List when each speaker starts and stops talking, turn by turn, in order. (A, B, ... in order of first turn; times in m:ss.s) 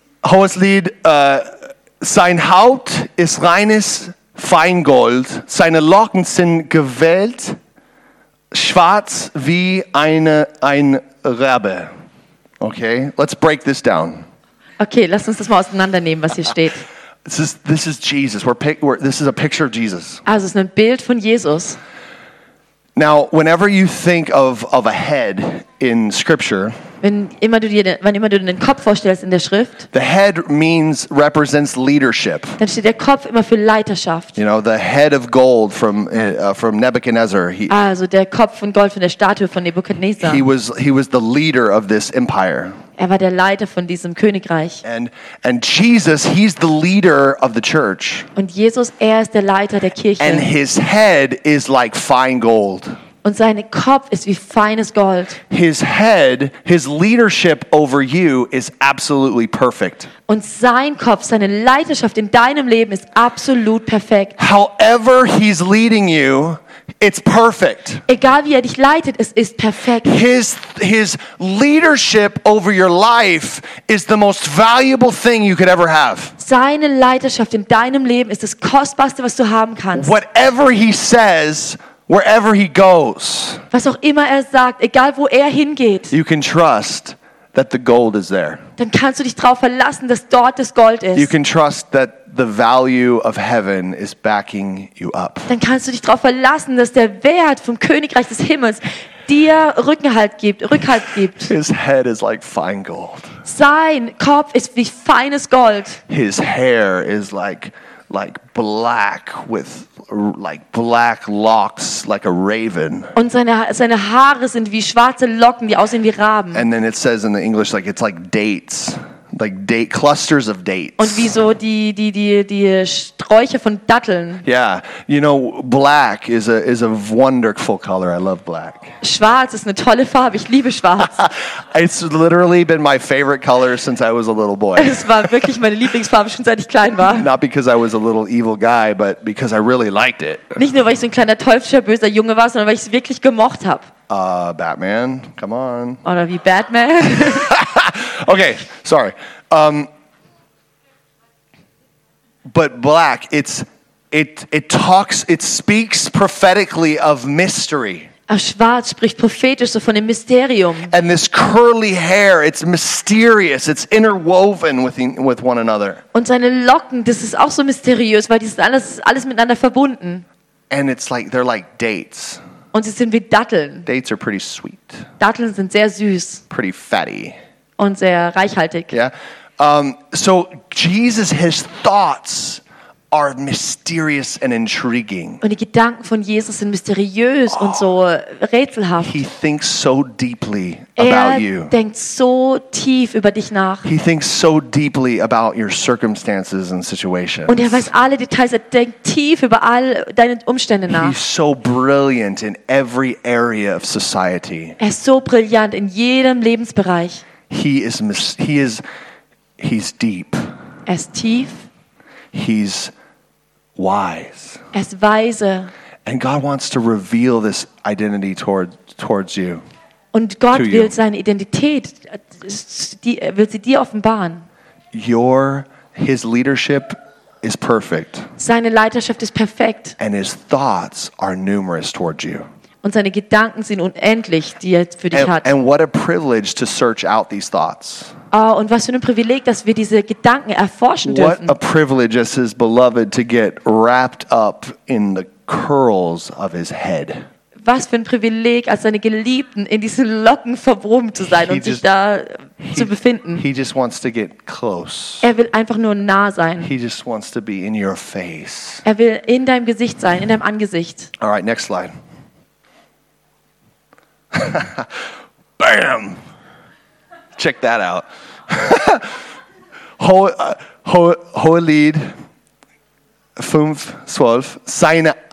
0:00.2-0:07.6 A
0:08.5-0:11.9 A
0:12.6-0:14.2 A
0:14.8-0:16.8 B
0:17.2-0:20.2 A
0:20.2-0:21.8 B
0:23.0-0:26.8 A
0:27.0-0:29.8 B
0:29.9-0:32.6 A
0:32.6-0:34.4 B
0:34.4-0:37.7 A
0:37.7-0:40.4 B
0:40.2-0:42.8 A
0:43.0-0:44.8 B
0:44.8-0:48.3 A
0:48.4-0:50.5 B
0:50.2-0:53.0 A
0:53.2-0:55.4 B
0:55.5-1:00.1 A
1:00.3-1:04.4 B
1:04.4-1:08.0 A
1:08.1-1:10.2 B
1:10.0-1:16.3 A
1:16.4-1:20.1 B
1:19.9-1:23.6 A
1:23.7-1:26.1 B
1:26.1-1:28.6 A
1:28.8-1:31.3 B
1:31.2-1:35.5 A
1:35.5-1:41.5 B
1:41.4-1:43.3 A
1:43.4-1:46.0 B
1:46.1-1:53.1 A
1:53.1-1:56.6 B
1:56.5-2:01.3 A
2:01.0-2:04.4 B
2:04.4-2:08.9 A
2:09.0-2:11.2 B
2:11.2-2:15.3 A
2:14.8-2:17.3 B
2:17.0-2:20.6 A
2:20.6-2:23.9 B
2:24.1-2:26.0 A
2:26.0-2:27.5 B
2:27.2-2:29.9 A
2:32.5-2:38.1 A
2:38.3-2:40.9 B
2:40.9-2:46.0 A
2:46.1-2:50.2 B
2:50.7-2:52.4 A
2:52.7-2:53.9 B
2:53.8-2:55.1 A
2:55.2-2:56.4 B
2:56.5-2:57.4 A
2:57.8-2:58.9 B
2:58.9-3:02.6 A
3:03.1-3:05.4 A
3:05.4-3:09.2 B
3:09.0-3:11.7 A
3:11.0-3:13.8 B
3:13.8-3:17.9 A
3:17.5-3:21.2 B
3:20.9-3:24.8 A
3:24.8-3:27.2 B
3:27.5-3:28.8 A
3:29.6-3:30.5 A
3:30.9-3:31.6 B
3:32.3-3:32.9 A
3:33.8-3:34.6 A
3:34.7-3:35.7 B
3:36.0-3:39.6 A
3:40.1-3:44.4 B
3:40.5-3:40.9 A
3:44.9-3:48.3 A
3:48.4-3:49.9 B
3:50.0-3:52.4 A
3:52.8-3:55.5 B
3:55.1-3:58.1 A
3:58.3-4:01.5 B
4:01.0-4:07.2 A
4:07.6-4:13.4 B
4:11.3-4:11.8 A
4:12.6-4:15.3 A
4:15.2-4:16.7 B
4:16.6-4:18.8 A
4:18.8-4:21.1 B
4:21.2-4:21.9 A
4:24.3-4:24.9 A
4:25.6-4:26.2 A
4:27.4-4:29.2 A
4:30.0-4:32.1 A
4:33.4-4:35.2 A